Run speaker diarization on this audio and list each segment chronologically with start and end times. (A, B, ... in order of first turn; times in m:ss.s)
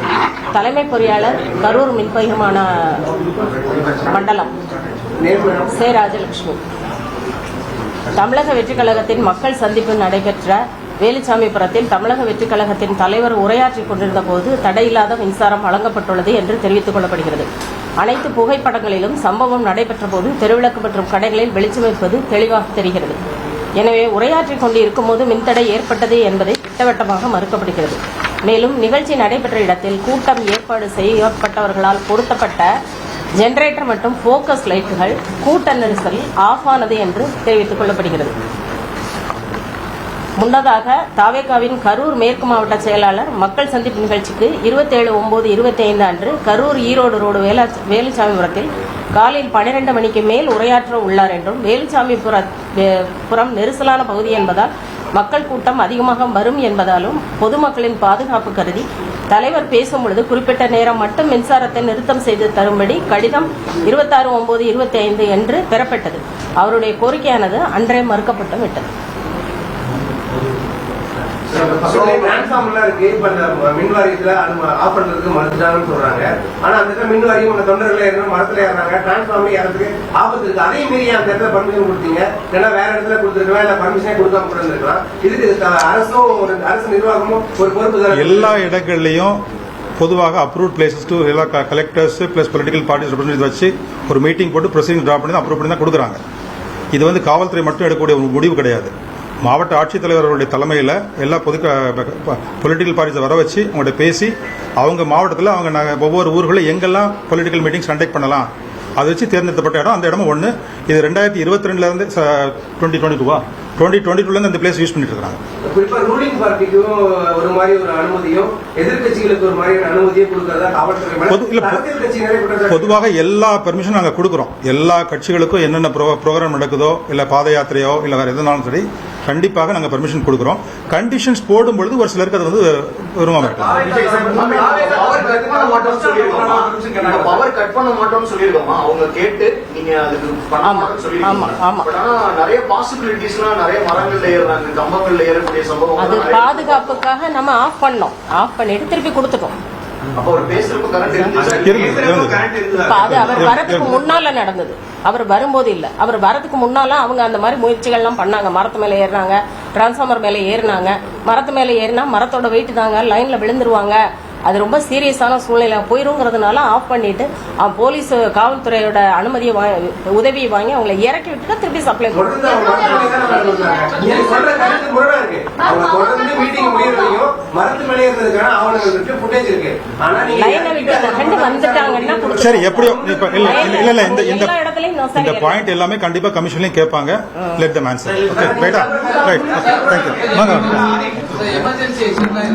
0:00.5-0:03.0 A
0:04.0-0:04.5 A
0:05.2-0:05.7 B
0:05.7-0:06.6 A
0:08.1-0:17.5 A
0:18.0-0:23.2 A
0:23.8-0:32.7 A
0:33.4-0:38.3 A
0:40.4-1:08.9 A
1:11.5-1:28.5 B
1:28.1-1:29.4 C
1:30.0-1:36.2 C
1:36.9-1:55.4 C
1:55.6-2:02.9 B
2:01.3-2:01.8 C
2:02.7-2:13.9 C
2:13.5-2:27.0 D
2:13.7-2:17.4 B
2:20.6-2:21.9 A
2:26.0-2:29.6 A
2:30.1-2:33.5 D
2:31.5-2:31.8 B
2:31.6-2:32.5 C
2:32.7-2:52.7 A
2:33.0-2:33.9 C
2:52.1-3:03.9 B
3:00.3-3:02.6 A
3:02.4-3:04.5 C
3:03.4-3:05.6 A
3:05.2-3:10.8 C
3:08.3-3:10.8 B